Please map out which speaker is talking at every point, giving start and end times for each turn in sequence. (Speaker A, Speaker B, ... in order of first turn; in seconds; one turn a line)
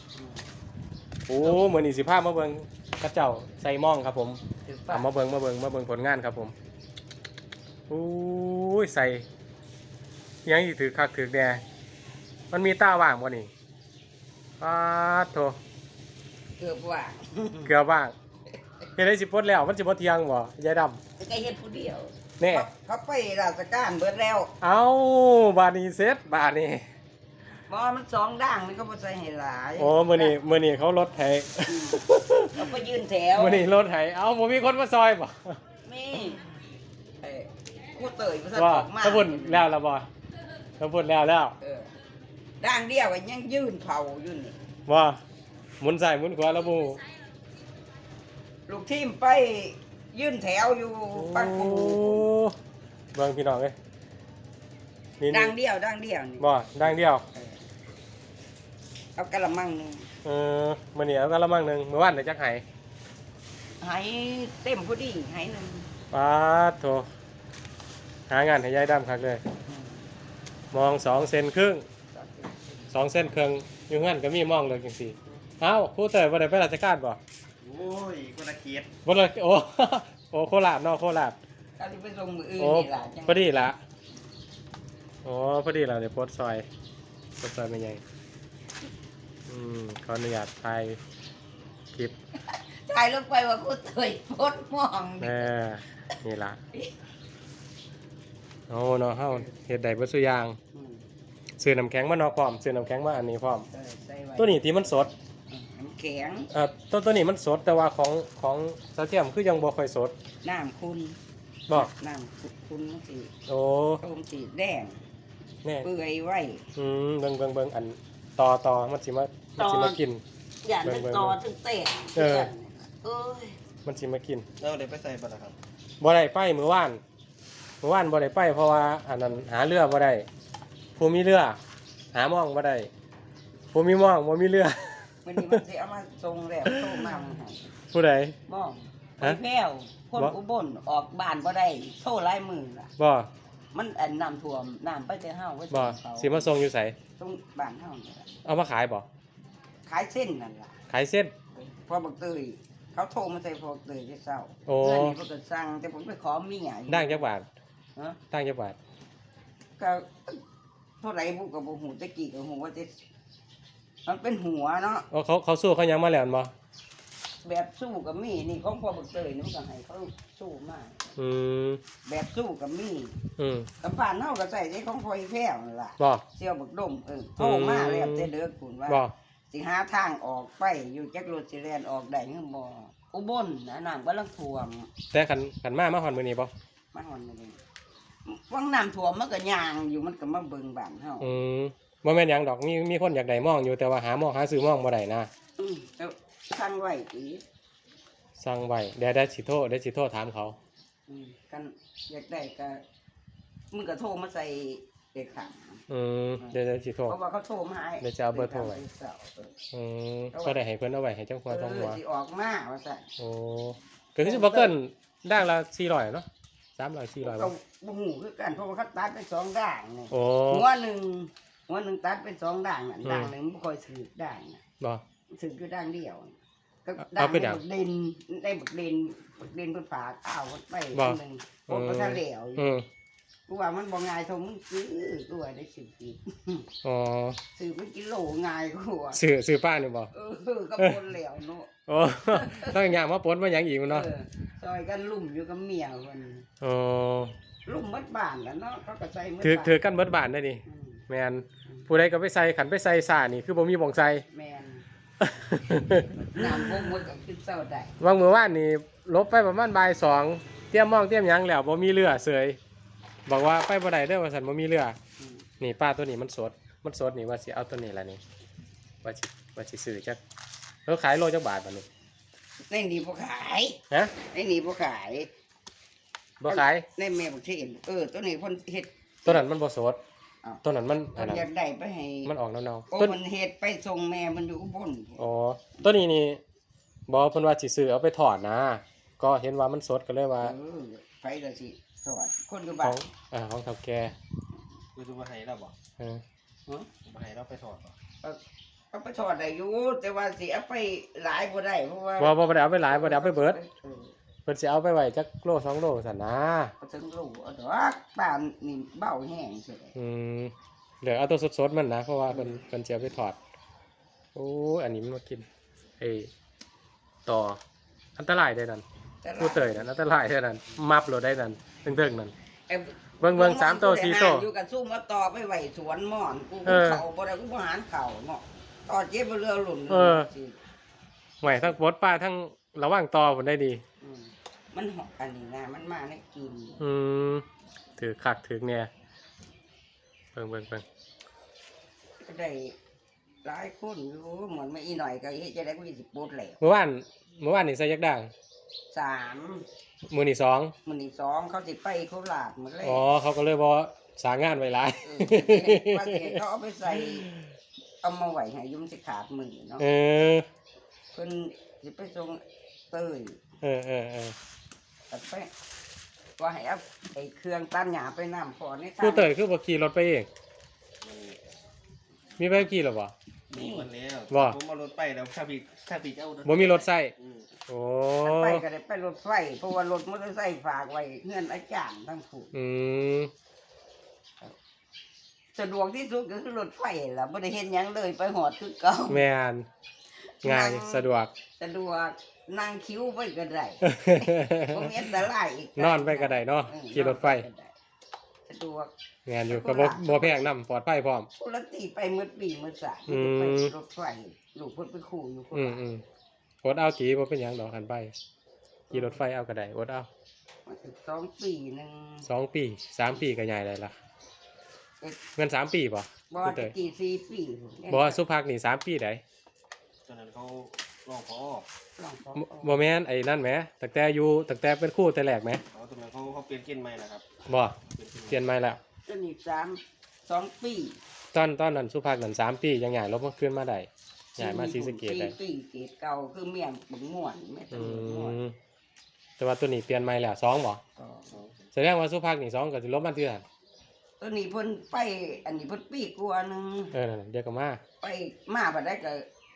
Speaker A: 0.1-0.4
Speaker B: 1.3-4.4
Speaker A: 4.7-5.1
Speaker B: 4.9-6.5
Speaker B: 7.9-9.3
Speaker B: 10.4-11.6
Speaker B: 12.5-13.5
Speaker B: 14.6-15.6
Speaker A: 16.6-17.7
Speaker B: 17.6-18.1
Speaker B: 19.0-21.0
Speaker A: 21.2-24.5
Speaker B: 22.4-22.7
Speaker B: 24.6-26.8
Speaker A: 27.7-30.4
Speaker B: 29.8-32.7
Speaker A: 31.7-32.0
Speaker A: 32.5-33.7
Speaker B: 33.3-35.6
Speaker A: 35.8-36.4
Speaker A: 37.2-39.7
Speaker B: 38.5-40.1
Speaker B: 40.8-41.5
Speaker A: 41.6-41.9
Speaker A: 42.6-44.6
Speaker B: 44.9-45.2
Speaker B: 45.8-47.0
Speaker A: 48.7-52.3
Speaker B: 51.1-52.5
Speaker B: 53.1-53.7
Speaker B: 55.2-55.5
Speaker A: 55.3-57.6
Speaker B: 56.4-57.2
Speaker A: 59.1-60.1
Speaker B: 60.2-62.6
Speaker A: 63.8-65.9
Speaker B: 66.1-67.1
Speaker B: 68.3-69.4
Speaker A: 69.7-70.1
Speaker B: 70.7-71.8
Speaker A: 72.1-72.8
Speaker B: 72.9-77.2
Speaker C: 77.6-78.9
Speaker B: 79.0-81.4
Speaker A: 81.8-83.5
Speaker B: 82.6-83.8
Speaker B: 85.2-86.7
Speaker B: 87.4-88.0
Speaker B: 89.5-91.0
Speaker A: 92.5-95.5
Speaker B: 95.2-96.6
Speaker B: 98.7-100.6
Speaker A: 100.7-101.0
Speaker B: 101.6-103.7
Speaker A: 103.7-106.5
Speaker B: 104.4-105.1
Speaker B: 106.5-110.1
Speaker A: 110.4-111.2
Speaker A: 111.7-113.3
Speaker B: 113.5-114.0
Speaker A: 114.0-115.0
Speaker A: 115.8-116.7
Speaker B: 116.8-120.2
Speaker A: 119.6-120.0
Speaker A: 120.6-123.6
Speaker B: 120.8-121.4
Speaker B: 122.2-122.5
Speaker B: 123.8-124.4
Speaker C: 124.6-125.5
Speaker B: 126.0-127.0
Speaker B: 127.8-130.3
Speaker B: 130.9-131.6
Speaker B: 132.1-132.9
Speaker B: 133.7-134.8
Speaker A: 135.2-137.7
Speaker B: 137.9-138.3
Speaker A: 138.5-142.9
Speaker B: 143.0-143.3
Speaker A: 143.7-146.5
Speaker B: 145.7-146.9
Speaker A: 147.2-148.3
Speaker B: 148.4-149.1
Speaker A: 149.8-150.8
Speaker B: 150.9-151.3
Speaker A: 151.6-157.2
Speaker B: 154.7-155.2
Speaker B: 156.9-157.5
Speaker B: 158.3-158.8
Speaker A: 159.8-160.4
Speaker A: 161.0-162.9
Speaker A: 164.1-165.1
Speaker B: 165.1-166.5
Speaker A: 167.4-171.1
Speaker B: 171.2-171.8
Speaker A: 172.0-173.2
Speaker B: 173.4-173.7
Speaker A: 173.8-184.9
Speaker B: 177.4-178.3
Speaker B: 185.1-186.5
Speaker A: 186.9-187.6
Speaker A: 188.2-191.3
Speaker B: 191.2-195.3
Speaker A: 195.6-197.4
Speaker B: 198.4-200.6
Speaker A: 201.1-202.8
Speaker A: 203.7-205.9
Speaker B: 205.9-207.2
Speaker A: 207.1-209.5
Speaker B: 208.0-208.8
Speaker B: 209.7-212.0
Speaker A: 210.3-210.6
Speaker A: 211.5-213.1
Speaker B: 213.2-216.2
Speaker A: 214.2-214.7
Speaker B: 216.8-217.5
Speaker A: 217.2-224.6
Speaker B: 220.1-220.7
Speaker B: 223.0-223.3
Speaker A: 225.3-232.7
Speaker B: 227.1-227.6
Speaker B: 230.9-232.8
Speaker A: 233.5-236.7
Speaker B: 236.8-237.4
Speaker A: 237.5-239.2
Speaker B: 239.1-240.1
Speaker A: 240.1-241.7
Speaker B: 241.9-244.1
Speaker A: 242.3-242.8
Speaker A: 243.9-246.5
Speaker B: 246.6-247.3
Speaker A: 247.7-249.8
Speaker B: 249.4-254.2
Speaker A: 250.7-251.0
Speaker A: 254.3-254.8
Speaker B: 255.2-256.6
Speaker A: 256.1-257.9
Speaker B: 258.0-262.6
Speaker B: 263.3-265.0
Speaker A: 265.2-265.4
Speaker B: 265.6-268.2
Speaker B: 269.0-270.2
Speaker B: 270.9-271.9
Speaker A: 272.7-275.3
Speaker B: 276.4-276.9
Speaker A: 276.5-279.4
Speaker B: 279.2-280.0
Speaker B: 280.6-281.5
Speaker A: 281.1-282.3
Speaker B: 282.2-283.1
Speaker A: 282.9-285.3
Speaker B: 285.2-286.4
Speaker B: 287.1-290.5
Speaker A: 290.4-293.1
Speaker B: 292.8-294.1
Speaker C: 294.9-295.7
Speaker C: 297.0-297.9
Speaker A: 298.9-304.1
Speaker B: 302.2-303.6
Speaker B: 304.4-306.7
Speaker A: 306.8-309.9
Speaker B: 309.9-313.4
Speaker A: 312.3-312.6
Speaker B: 314.3-315.4
Speaker B: 316.0-316.3
Speaker B: 317.2-317.6
Speaker B: 318.2-318.8
Speaker A: 319.2-319.9
Speaker B: 319.4-322.3
Speaker A: 322.7-330.6
Speaker B: 323.2-324.5
Speaker B: 326.6-327.0
Speaker B: 329.9-330.3
Speaker B: 331.4-333.8
Speaker A: 331.4-331.7
Speaker A: 334.0-336.8
Speaker B: 336.8-337.4
Speaker B: 338.0-338.9
Speaker B: 340.3-340.8
Speaker A: 342.2-342.7
Speaker A: 343.4-346.6
Speaker B: 346.6-348.3
Speaker A: 348.9-349.6
Speaker B: 350.1-350.7
Speaker A: 350.8-353.0
Speaker B: 352.8-356.4
Speaker A: 355.0-357.3
Speaker A: 358.0-359.9
Speaker B: 359.8-360.4
Speaker A: 361.1-363.4
Speaker B: 363.6-364.3
Speaker A: 365.1-365.5
Speaker A: 366.4-369.3
Speaker B: 369.0-370.3
Speaker C: 371.0-371.4
Speaker B: 372.4-373.1
Speaker A: 373.5-373.9
Speaker C: 373.5-377.5
Speaker B: 374.3-374.6
Speaker B: 376.4-377.1
Speaker B: 377.7-378.6
Speaker A: 378.2-382.5
Speaker B: 382.5-383.3
Speaker A: 385.5-389.2
Speaker B: 389.1-389.6
Speaker A: 390.4-391.1
Speaker B: 390.4-391.3
Speaker A: 391.6-397.7
Speaker B: 393.8-394.9
Speaker B: 395.8-397.4
Speaker A: 398.5-398.9
Speaker B: 399.2-401.3
Speaker A: 399.5-400.5
Speaker A: 401.4-405.8
Speaker B: 403.1-403.7
Speaker B: 405.5-406.0
Speaker B: 406.6-408.1
Speaker A: 408.9-409.2
Speaker B: 408.9-410.1
Speaker A: 410.6-412.3
Speaker B: 412.3-413.9
Speaker B: 415.4-416.7
Speaker A: 416.3-418.2
Speaker B: 417.9-419.2
Speaker C: 420.1-421.6
Speaker A: 422.0-422.9
Speaker B: 422.4-425.6
Speaker C: 425.7-427.2
Speaker B: 427.5-427.8
Speaker C: 427.9-428.4
Speaker B: 428.3-428.8
Speaker A: 429.1-431.0
Speaker B: 431.3-435.3
Speaker A: 434.4-438.4
Speaker B: 437.7-438.5
Speaker B: 439.4-440.8
Speaker A: 441.0-441.4
Speaker B: 441.7-443.4
Speaker A: 444.2-446.9
Speaker B: 446.9-447.8
Speaker A: 448.0-449.2